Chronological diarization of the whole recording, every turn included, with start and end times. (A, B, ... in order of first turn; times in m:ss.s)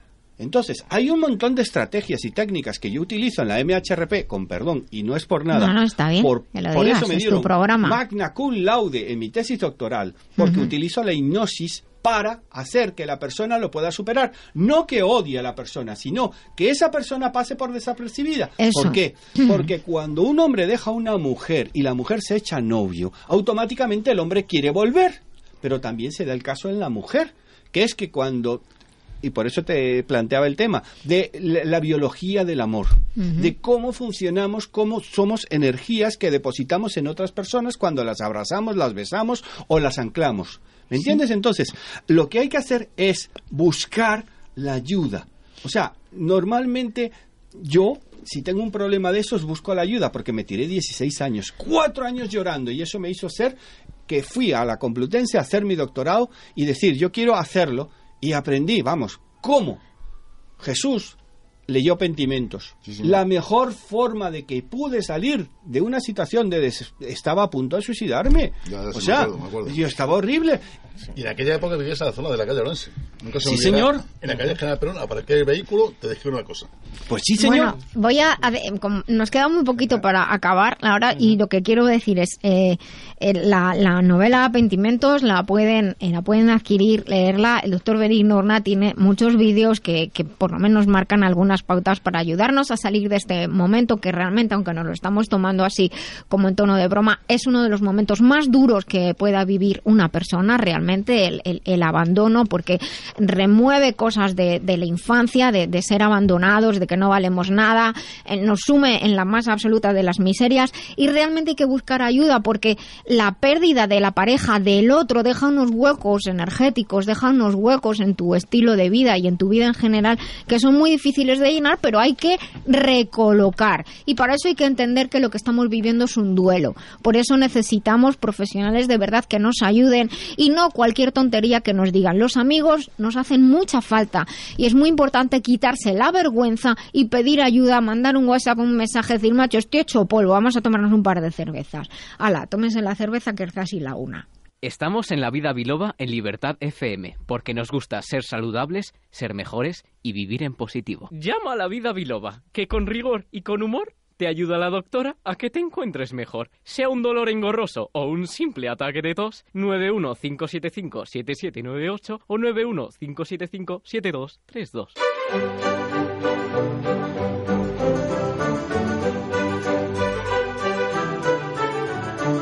0:00.4-0:28.6 A
0:05.5-0:08.0 B
0:10.4-0:10.7 B
0:18.6-0:19.7 B
0:29.2-0:53.6 A
0:33.2-0:33.5 B
0:54.1-0:59.8 A
1:00.6-1:01.2 A
1:01.7-1:10.6 A
1:02.8-1:03.2 C
1:08.6-1:09.9 C
1:11.1-1:16.7 C
1:13.4-1:14.0 A
1:17.1-1:17.8 A
1:17.4-2:24.2 B
2:24.6-2:45.0 D